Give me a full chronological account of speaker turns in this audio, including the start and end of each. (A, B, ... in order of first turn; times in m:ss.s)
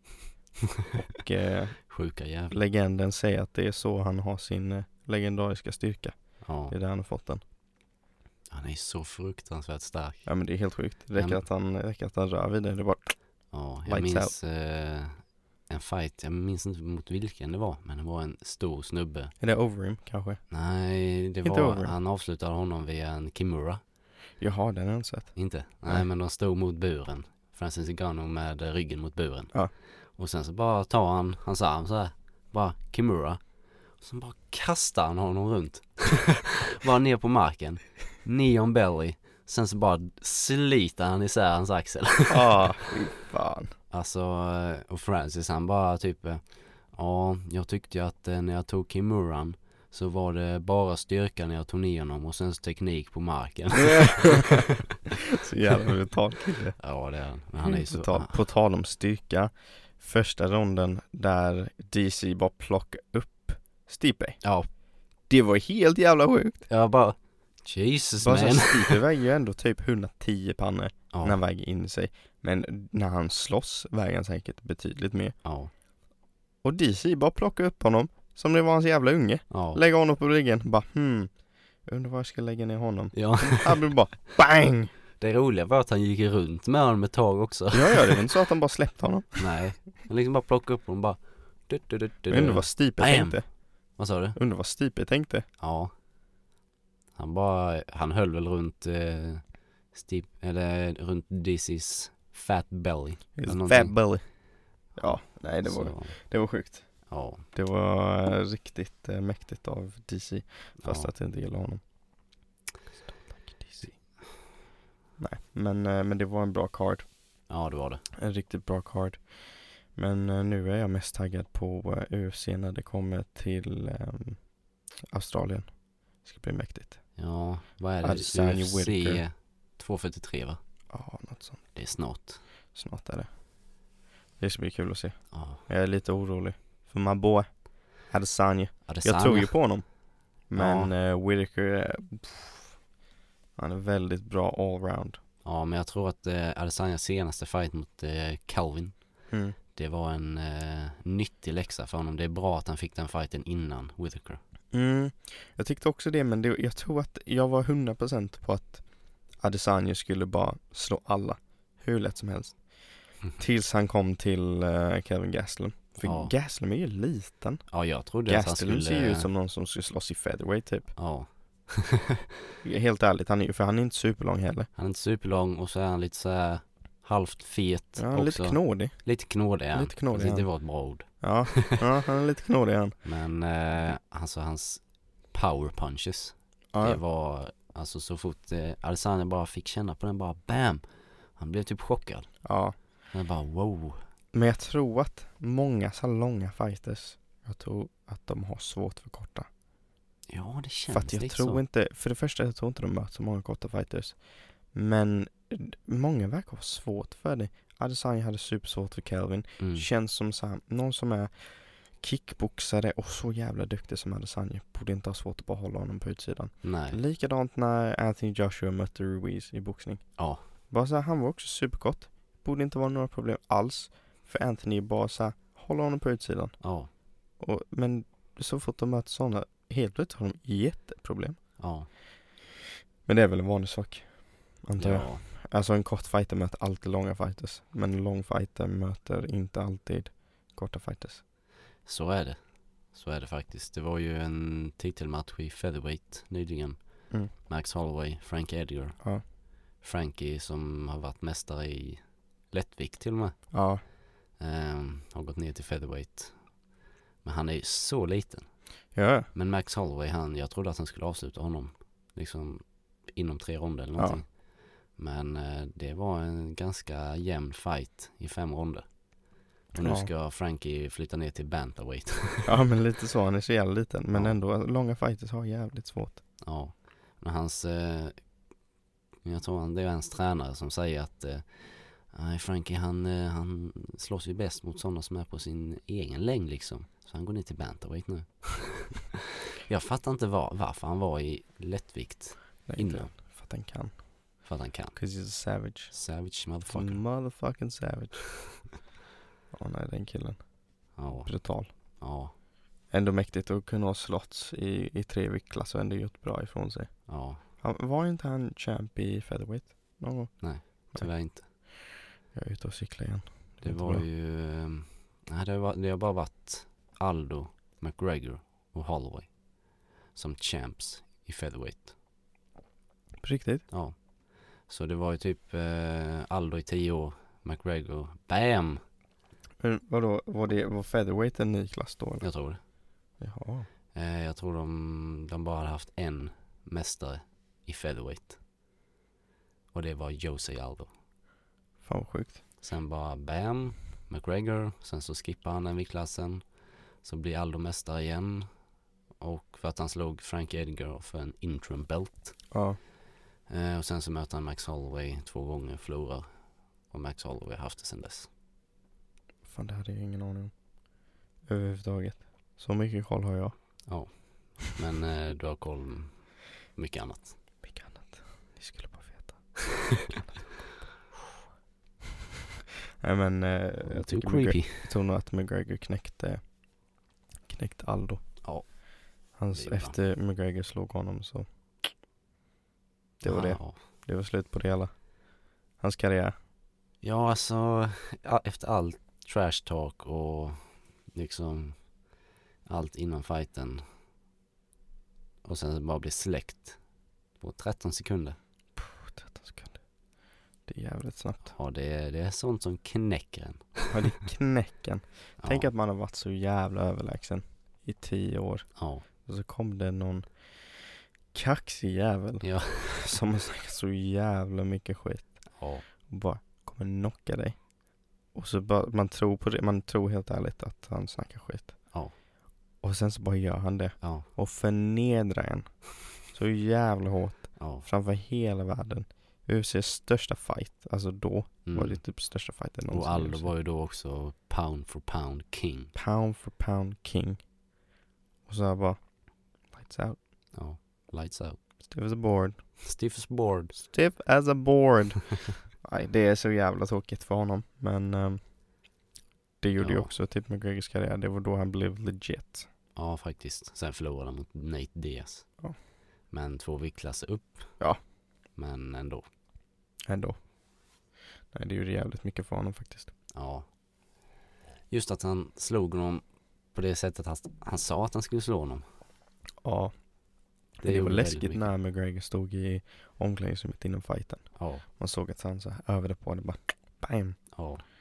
0:01.0-0:01.9 A
0:01.9-0:02.6 B
0:02.5-0:07.4 A
0:06.4-0:06.8 B
0:08.5-0:10.3 B
0:10.3-0:14.3 A
0:11.2-0:11.4 B
0:13.5-0:19.3 B
0:19.4-0:20.4 A
0:20.5-0:23.8 B
0:21.4-0:22.0 A
0:24.4-0:26.1 A
0:25.4-0:33.4 B
0:34.0-0:42.8 B
0:42.3-0:43.7 A
0:43.9-0:54.6 B
0:54.0-0:54.6 A
0:55.3-0:56.8 A
0:56.8-0:58.4 B
0:57.6-1:04.4 A
1:04.4-1:04.7 B
1:05.3-1:06.7 A
1:06.7-1:09.0 B
1:08.2-1:15.4 A
1:11.1-1:11.4 B
1:15.4-1:15.7 B
1:16.6-1:24.9 A
1:19.5-1:19.8 B
1:23.1-1:24.0 B
1:25.2-1:28.2 B
1:27.7-1:29.8 A
1:29.4-1:34.4 B
1:32.3-1:33.5 A
1:34.3-1:35.5 A
1:35.6-1:35.9 B
1:37.2-1:44.0 B
1:43.4-1:51.8 A
1:45.0-1:46.2 B
1:47.1-1:47.4 B
1:50.8-1:51.1 B
1:53.1-1:54.0 A
1:53.8-1:54.2 B
1:55.2-1:57.5 A
1:57.5-1:58.0 B
1:58.2-2:07.2 A
2:07.2-2:10.6 B
2:08.0-2:09.2 A
2:10.9-2:11.8 A
2:11.7-2:12.4 B
2:12.7-2:13.3 A
2:14.4-2:22.8 A
2:15.3-2:15.6 B
2:18.9-2:19.7 B
2:20.6-2:20.9 B
2:23.6-2:25.2 A
2:25.4-2:34.4 B
2:29.3-2:29.6 A
2:34.7-2:51.0 A
2:46.0-2:46.3 B
2:47.7-2:49.3 B
2:51.0-2:52.1 B
2:52.6-2:54.7 A
2:54.8-3:01.8 B
2:58.0-2:59.2 A
2:59.7-3:03.0 A
3:03.0-3:12.4 B
3:06.7-3:07.0 A
3:12.4-3:12.8 A
3:13.1-3:14.0 B
3:14.3-3:19.5 A
3:20.3-3:21.6 B
3:20.9-3:46.7 A
3:29.6-3:29.9 B
3:36.6-3:37.0 B
3:40.2-3:40.5 B
3:46.6-3:46.9 B
3:47.4-3:51.8 A
3:51.6-3:51.9 B
3:53.1-4:01.2 A
3:54.8-3:55.2 B
4:01.8-4:09.1 B
4:09.8-4:13.5 B
4:13.5-4:13.8 A
4:14.4-4:16.6 B
4:17.2-4:18.6 B
4:19.0-4:19.3 A
4:19.3-4:29.0 B
4:24.0-4:24.2 A
4:29.7-4:32.6 B
4:29.8-4:30.1 A
4:32.4-4:36.2 A
4:36.4-4:38.3 B
4:39.2-4:53.1 B
4:52.7-4:54.1 A
4:54.4-4:55.0 B
4:55.0-4:56.0 A
4:55.9-4:57.0 B
4:56.7-4:58.6 A
4:59.5-5:01.7 A
5:01.0-5:02.3 B
5:02.9-5:11.7 A
5:07.1-5:07.4 B
5:10.4-5:11.5 B
5:12.3-5:14.0 A
5:13.6-5:19.4 B
5:20.1-5:21.9 B
5:23.2-5:23.7 A
5:23.7-5:24.1 B
5:24.6-5:28.8 B
5:29.6-5:32.3 A
5:32.2-5:32.6 B
5:33.2-5:33.7 A
5:33.9-5:38.4 B
5:39.7-5:40.9 B
5:41.8-5:42.4 A
5:42.6-5:46.5 B
5:47.0-5:48.5 B
5:49.2-5:52.5 B
5:52.5-5:52.8 A
5:53.5-5:58.3 B
5:59.5-6:00.6 A
6:01.5-6:04.0 A
6:03.9-6:07.4 B
6:07.6-6:09.6 A
6:10.2-6:10.4 A
6:13.0-6:16.5 A
6:13.9-6:14.9 B
6:17.5-6:18.7 A
6:18.4-6:20.0 B
6:19.4-6:21.9 A
6:23.2-6:25.1 A
6:23.2-6:23.8 B
6:25.8-6:26.4 A
6:27.0-6:31.9 B
6:32.7-6:33.8 B
6:35.4-6:36.8 B
6:37.4-6:38.4 B
6:38.8-6:39.8 A
6:40.7-6:41.5 A
6:41.5-6:43.9 B
6:43.9-6:57.7 A
6:45.4-6:45.7 B
6:48.8-6:49.0 B
6:52.4-6:53.1 B
6:55.5-6:55.8 B
6:58.3-7:02.0 A
7:02.8-7:13.5 A
7:04.0-7:04.3 B
7:07.6-7:07.9 B
7:11.7-7:12.1 B
7:12.9-7:15.9 B
7:16.0-7:17.4 A
7:18.5-7:20.2 A
7:20.5-7:21.6 B
7:21.9-7:22.8 A
7:22.8-7:23.8 B
7:23.8-7:28.4 A
7:29.6-7:32.7 A
7:29.8-7:30.1 B
7:33.0-7:35.6 B
7:36.3-7:37.9 B
7:38.5-7:39.3 B
7:40.1-7:40.4 A
7:41.5-7:43.1 A
7:43.3-7:43.7 B
7:44.9-7:48.8 B
7:49.6-7:50.0 A
7:50.7-7:57.6 A
7:50.8-7:51.7 B
7:54.6-7:54.9 B
7:57.5-7:57.8 B